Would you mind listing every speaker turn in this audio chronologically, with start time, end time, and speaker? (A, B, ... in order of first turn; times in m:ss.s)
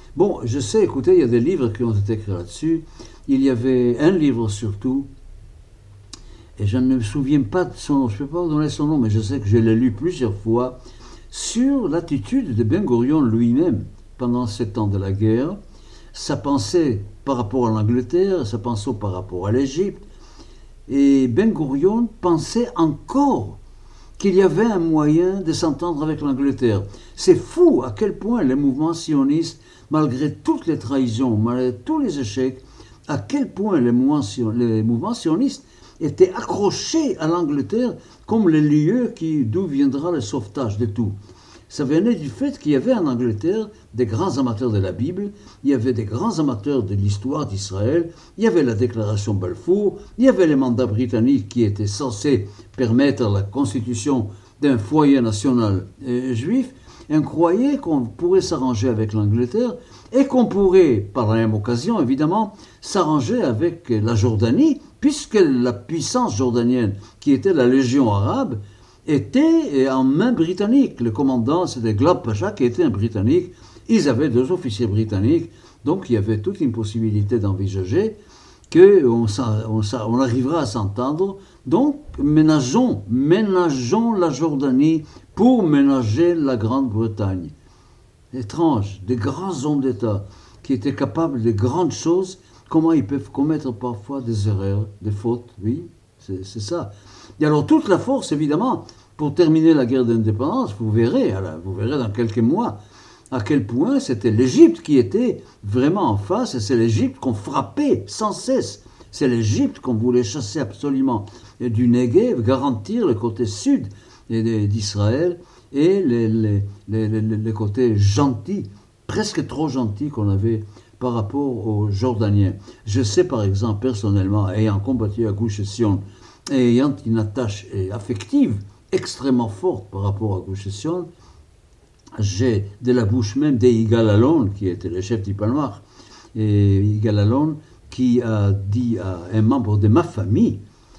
0:00.2-0:05.1 A
0:06.6-0:10.8 A
0:11.3-0:15.6 A
0:16.1-0:20.0 A
0:20.9-0:23.6 A
0:24.2-0:41.2 A
0:41.7-1:18.2 A
1:18.7-1:27.5 A
1:28.3-1:42.8 A
1:43.3-2:11.1 A
2:12.2-2:20.6 A